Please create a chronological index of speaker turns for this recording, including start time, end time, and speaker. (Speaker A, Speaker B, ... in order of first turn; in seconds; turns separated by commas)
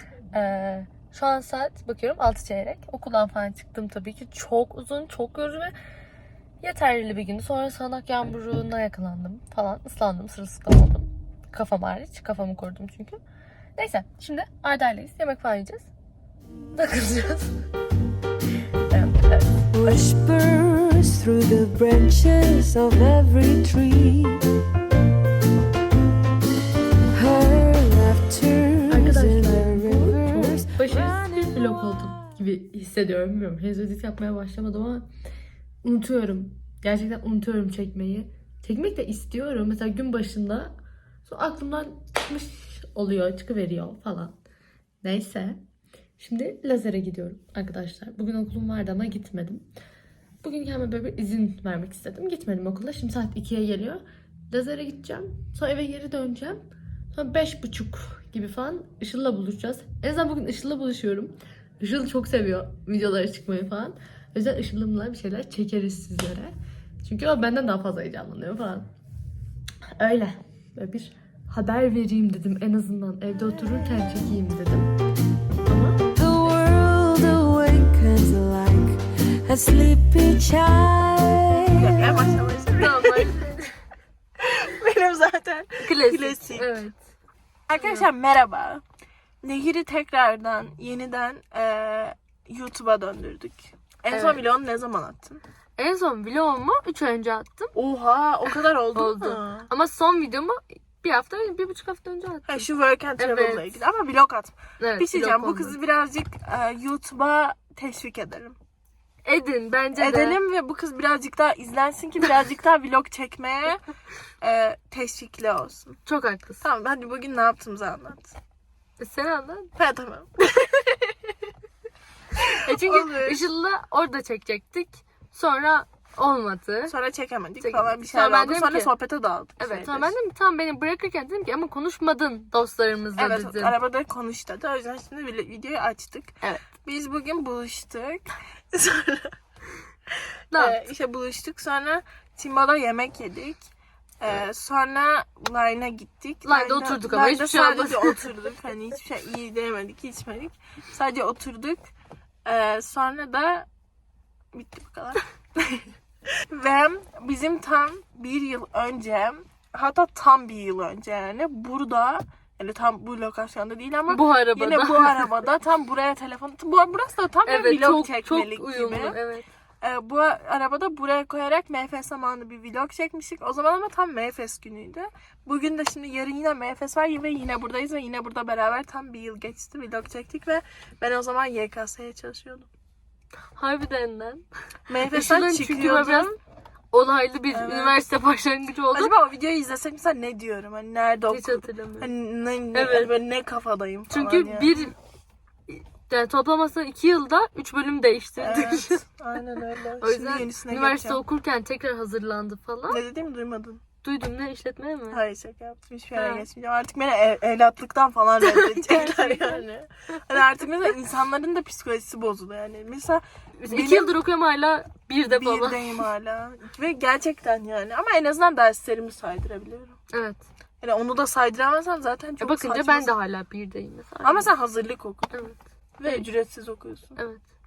Speaker A: 0.3-5.7, Speaker A: 6.6-13.2, Speaker A: 13.8-15.9, Speaker A: 16.7-17.6, Speaker A: 18.9-20.0, Speaker B: 19.7-24.5, Speaker B: 27.1-32.2, Speaker A: 28.9-35.1, Speaker A: 35.8-40.7, Speaker A: 41.2-44.4, Speaker A: 45.0-45.6, Speaker A: 46.2-49.6, Speaker A: 50.4-56.6, Speaker A: 57.1-68.9, Speaker A: 70.0-74.9, Speaker A: 75.6-76.0, Speaker B: 76.1-82.2, Speaker C: 81.7-83.3, Speaker A: 82.8-83.7, Speaker C: 84.4-86.8, Speaker A: 85.8-87.0, Speaker C: 87.7-88.8, Speaker A: 87.7-88.1, Speaker C: 89.4-95.4, Speaker A: 94.1-94.4, Speaker A: 95.8-97.7, Speaker C: 97.7-99.7, Speaker A: 98.9-102.7, Speaker C: 102.5-108.5, Speaker A: 103.2-103.8, Speaker A: 104.8-105.8, Speaker A: 109.2-110.4, Speaker C: 110.0-113.8, Speaker C: 114.4-116.0, Speaker A: 116.0-116.6, Speaker C: 116.6-118.3, Speaker A: 119.0-119.7, Speaker C: 119.8-120.5, Speaker A: 120.5-121.0, Speaker C: 122.4-123.4, Speaker A: 122.5-126.9, Speaker C: 126.9-130.1, Speaker A: 127.6-128.9, Speaker A: 129.6-133.8, Speaker C: 133.2-139.3, Speaker C: 140.5-143.6, Speaker A: 140.5-140.8, Speaker C: 144.2-151.9, Speaker A: 146.4-148.3, Speaker C: 152.4-153.7, Speaker C: 154.5-155.9, Speaker C: 156.5-169.2, Speaker A: 164.1-165.3, Speaker A: 167.5-169.4, Speaker C: 169.8-182.7, Speaker A: 183.5-184.4, Speaker C: 184.9-186.3, Speaker A: 185.1-186.4, Speaker A: 186.9-189.1, Speaker C: 187.5-188.0, Speaker C: 188.9-194.9, Speaker A: 191.3-192.1, Speaker A: 192.7-193.1, Speaker A: 194.1-194.9, Speaker A: 195.7-199.0, Speaker C: 198.4-201.2, Speaker A: 200.0-203.0, Speaker C: 202.9-203.8, Speaker A: 204.0-205.2, Speaker C: 205.1-214.2, Speaker A: 206.1-206.5, Speaker A: 208.4-209.7, Speaker A: 213.6-216.1, Speaker C: 215.2-220.0, Speaker A: 220.1-220.4, Speaker C: 220.8-223.1, Speaker A: 222.4-224.5, Speaker C: 224.2-225.4, Speaker A: 225.3-226.2, Speaker C: 226.0-227.2, Speaker A: 227.2-227.4